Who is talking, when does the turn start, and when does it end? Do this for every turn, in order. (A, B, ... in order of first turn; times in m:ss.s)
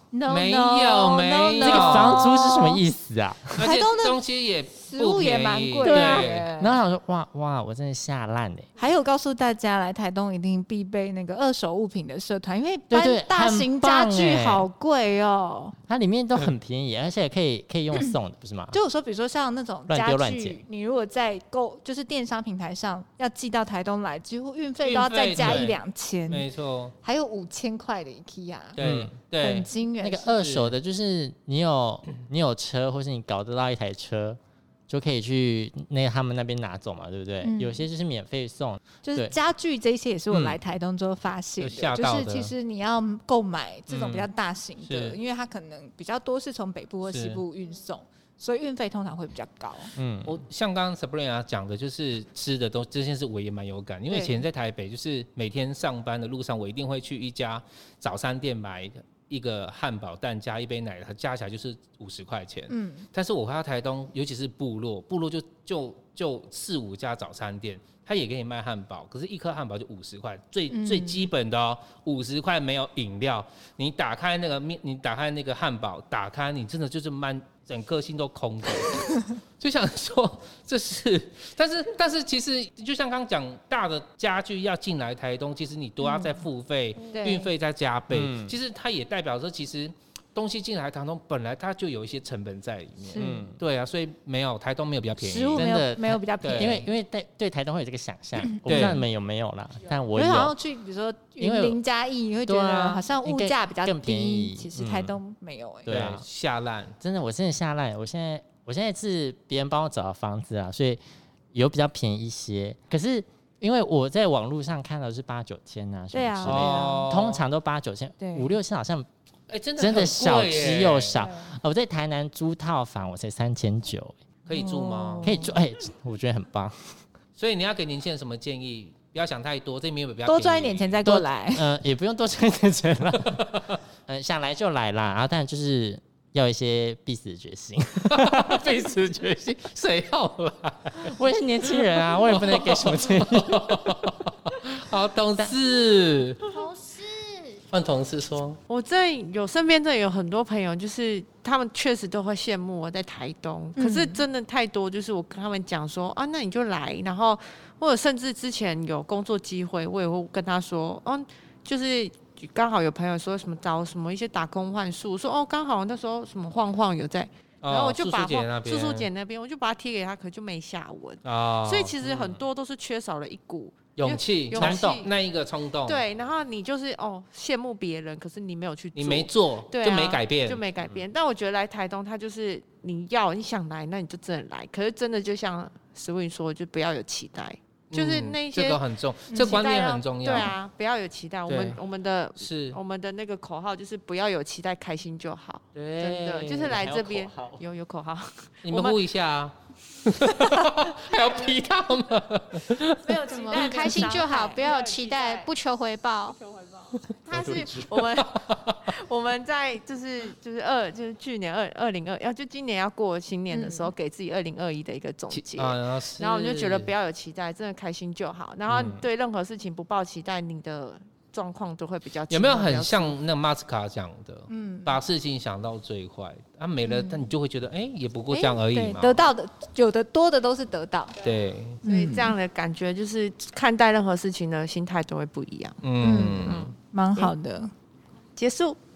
0:00.1-0:02.8 A
0:00.3-0:02.3 B
0:01.6-0:03.6 C
0:03.5-0:06.5 B
0:03.6-0:04.2 A
0:04.8-0:06.8 A
0:05.8-0:08.7 C
0:08.8-0:15.8 A
0:12.9-0:14.6 C
0:15.9-0:18.8 C
0:18.7-0:26.5 A
0:19.9-0:20.6 C
0:24.8-0:26.9 B
0:25.4-0:25.7 C
0:27.0-0:28.8 A
0:28.7-0:29.7 B
0:28.8-0:29.1 C
0:29.4-0:30.3 A
0:30.0-0:39.3 C
0:30.3-0:30.7 B
0:37.4-0:37.8 A
0:39.0-0:49.9 A
0:41.6-0:42.5 B
0:43.9-0:44.3 B
0:44.8-0:45.2 B
0:47.1-0:47.4 B
0:50.0-0:50.4 C
0:50.2-1:35.7 B
0:54.1-0:54.4 A
1:02.7-1:03.1 A
1:10.7-1:11.3 A
1:26.0-1:26.4 A
1:27.1-1:27.5 A
1:28.1-1:28.5 C
1:33.0-1:33.5 A
1:33.2-1:33.6 C
1:35.2-1:36.8 A
1:35.5-1:40.6 C
1:36.4-1:36.8 B
1:38.4-1:39.0 A
1:38.7-1:39.0 B
1:40.1-1:46.1 A
1:41.4-1:41.8 C
1:42.4-1:45.2 C
1:45.9-1:46.2 C
1:45.9-1:47.0 B
1:47.0-1:51.0 C
1:51.5-1:59.1 C
1:56.1-1:57.1 A
1:56.4-1:57.4 B
1:58.2-1:58.5 A
1:59.5-2:01.2 B
1:59.8-2:04.2 C
2:01.1-2:01.4 A
2:04.4-2:05.4 B
2:04.5-2:05.5 A
2:05.2-2:07.0 C
2:07.4-2:11.0 B
2:10.2-2:11.7 A
2:11.0-2:13.5 C
2:13.3-2:13.8 B
2:14.1-2:18.7 C
2:18.1-2:26.5 B
2:21.0-2:24.0 C
2:26.5-2:27.6 D
2:27.7-2:28.6 B
2:28.7-2:55.1 E
2:33.8-2:34.2 A
2:47.6-2:49.1 B
2:51.2-2:52.0 B
2:52.0-2:52.4 C
2:53.9-2:56.1 B
2:54.5-2:55.0 C
2:55.8-3:19.0 E
2:58.9-3:00.6 B
3:07.9-3:10.6 B
3:09.3-3:09.6 A
3:11.5-3:11.8 B
3:12.4-3:12.8 B
3:15.8-3:16.9 B
3:16.0-3:17.6 C
3:18.6-3:23.2 B
3:23.0-3:24.8 A
3:23.3-3:24.3 E
3:23.3-3:26.4 D
3:27.0-3:28.9 B
3:27.3-3:43.2 E
3:33.5-3:33.9 A
3:35.3-3:36.9 B
3:38.7-3:39.0 B
3:38.7-3:39.0 C
3:42.3-3:49.2 B
3:44.5-3:45.0 A
3:46.8-3:47.3 A
3:48.3-3:51.2 A
3:51.2-3:51.8 B
3:51.8-3:52.3 A
3:51.8-3:55.8 E
3:55.8-3:57.2 B
3:56.0-3:57.7 A
3:58.4-3:58.8 E